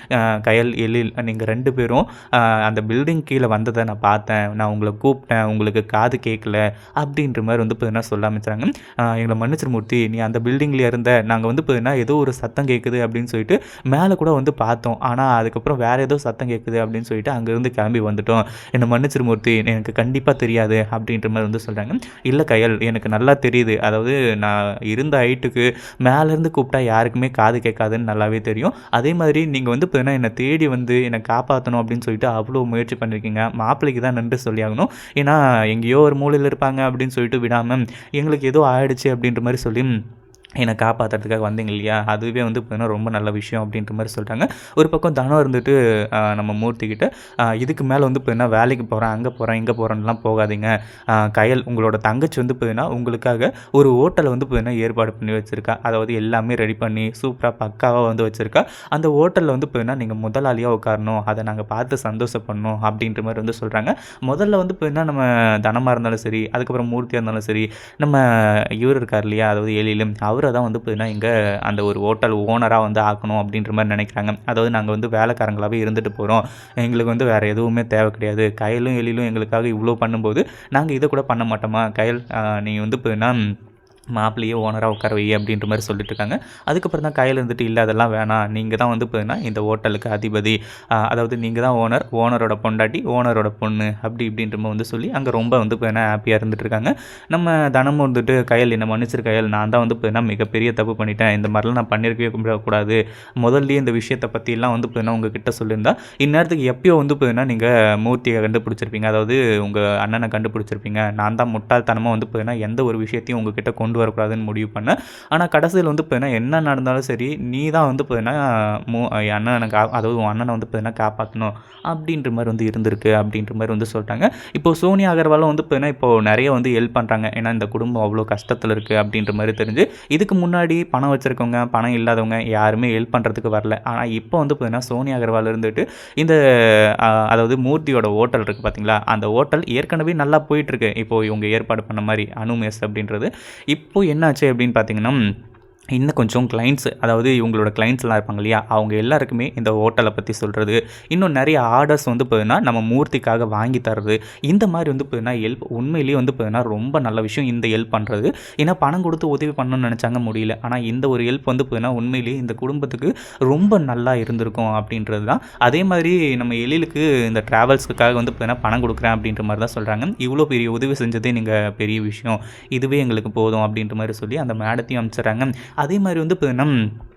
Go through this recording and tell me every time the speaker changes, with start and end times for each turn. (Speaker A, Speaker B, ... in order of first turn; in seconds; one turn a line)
Speaker A: 0.4-39.9
Speaker A: 40.6-47.1
Speaker A: 47.6-68.2
Speaker A: 68.8-83.4
Speaker A: 84.2-90.5
Speaker A: 91.0-118.4
Speaker A: 118.9-136.4
Speaker A: 137.3-145.2
Speaker A: 145.9-176.7